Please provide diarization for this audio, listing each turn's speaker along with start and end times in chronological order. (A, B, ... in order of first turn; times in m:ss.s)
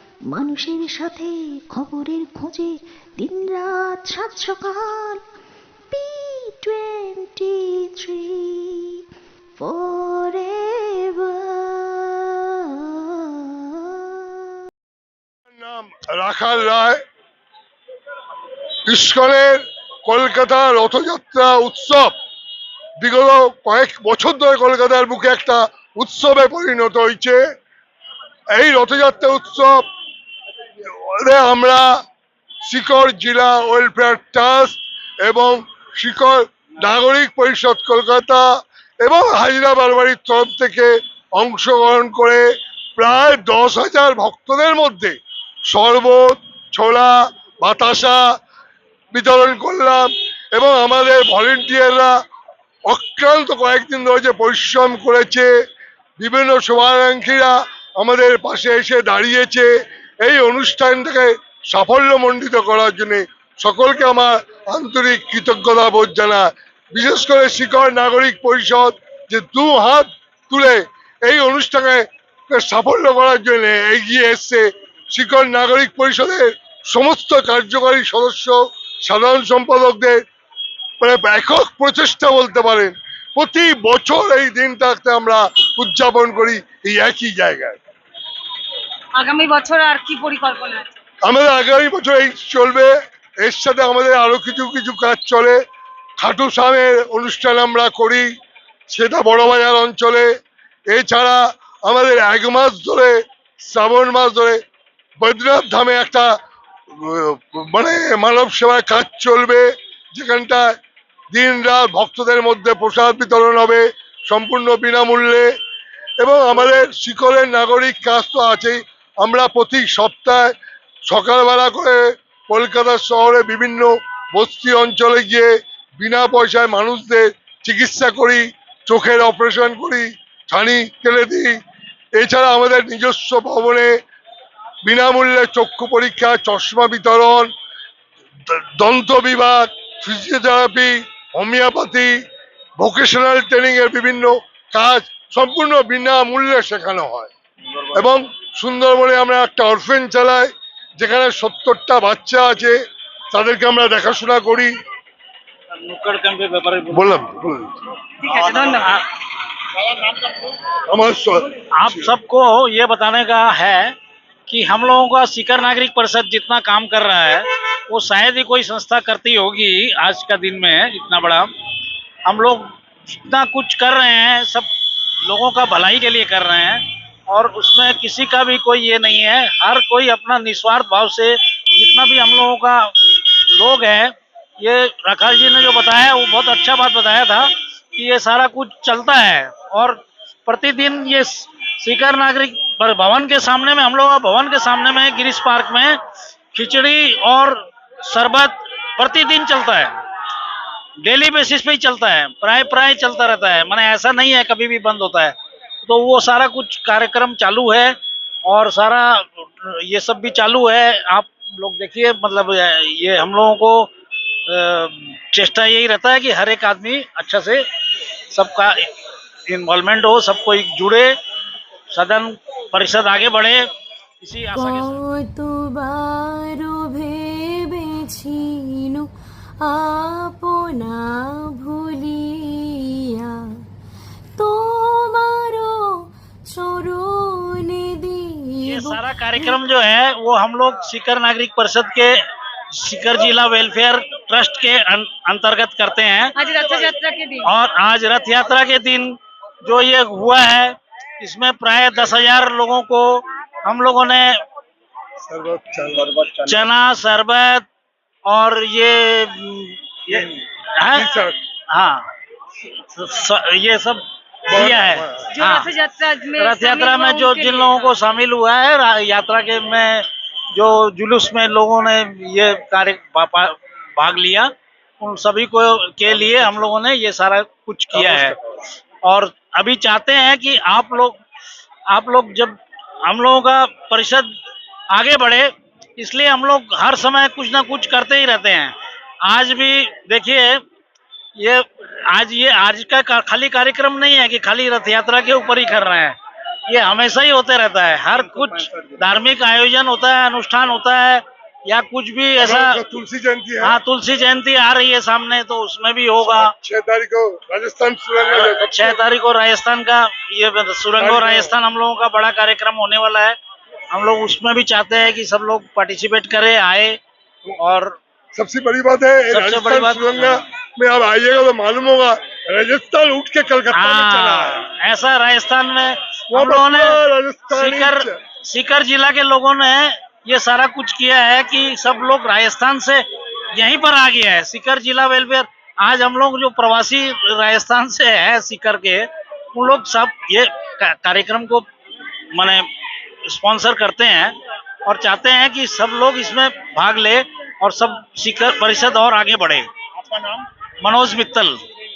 0:00.3-0:05.2 A
0:05.9-0:08.9 A
0:09.6-0:13.9 A
0:15.5-0:17.0 B
0:18.9-0:22.1 B
0:23.0-0:27.4 B
0:28.5-0:29.8 B
0:30.8-0:31.9 B
0:32.6-0:38.5 B
0:39.0-0:48.2 B
0:49.1-0:52.1 B
0:52.9-0:55.5 B
0:56.2-1:20.2 B
1:21.0-1:27.8 B
1:29.2-1:30.9 C
1:31.2-1:35.6 B
1:36.2-1:38.3 B
1:38.9-1:40.3 B
1:40.9-1:44.6 B
1:45.2-1:46.3 B
1:46.9-1:50.7 B
1:51.3-1:55.5 B
1:56.2-2:00.5 B
2:01.0-2:11.6 B
2:12.2-2:13.9 B
2:14.8-2:17.5 B
2:18.5-2:22.2 B
2:22.8-2:27.3 B
2:27.9-2:32.8 B
2:33.3-2:34.7 B
2:35.7-2:37.2 D
2:36.9-2:37.7 B
2:38.2-2:39.0 C
2:38.3-2:39.0 D
2:39.9-2:40.2 D
2:40.9-2:42.0 B
2:41.7-2:43.9 D
2:44.5-2:51.5 D
2:52.2-2:54.7 D
2:55.2-3:02.9 D
3:03.5-3:16.0 D
3:16.5-3:20.0 D
3:21.0-3:33.9 D
3:34.5-3:37.6 D
3:38.3-3:38.9 D
3:39.5-3:41.1 D
3:41.9-3:43.7 D
3:44.2-3:45.0 D
3:45.4-3:45.9 E
3:46.5-3:47.1 E
3:47.8-3:48.4 E
3:49.7-3:50.9 E
3:51.6-3:52.2 E
3:54.4-3:55.7 E
3:56.5-3:58.2 E
3:58.6-4:02.2 D
4:02.7-4:06.3 D
4:06.4-4:07.5 C
4:07.4-4:14.4 D
4:15.2-4:16.6 B
4:16.4-4:17.6 D
4:18.2-4:21.1 D
4:20.9-4:21.4 B
4:21.7-4:22.0 D
4:22.9-4:25.7 D
4:24.5-4:25.3 B
4:25.3-4:27.9 C
4:26.4-4:38.4 D
4:38.0-4:38.3 B
4:39.0-4:41.2 D
4:41.9-4:44.3 D
4:44.9-4:50.6 D
4:51.4-4:56.2 D
4:56.7-5:02.8 D
5:02.4-5:03.8 B
5:03.6-5:06.5 D
5:06.3-5:09.0 B
5:08.3-5:13.4 D
5:11.0-5:11.5 B
5:13.9-5:18.0 D
5:18.3-5:24.6 B
5:19.3-5:20.4 D
5:23.7-5:41.6 D
5:26.3-5:28.2 B
5:42.3-5:42.7 D
5:43.2-5:51.6 D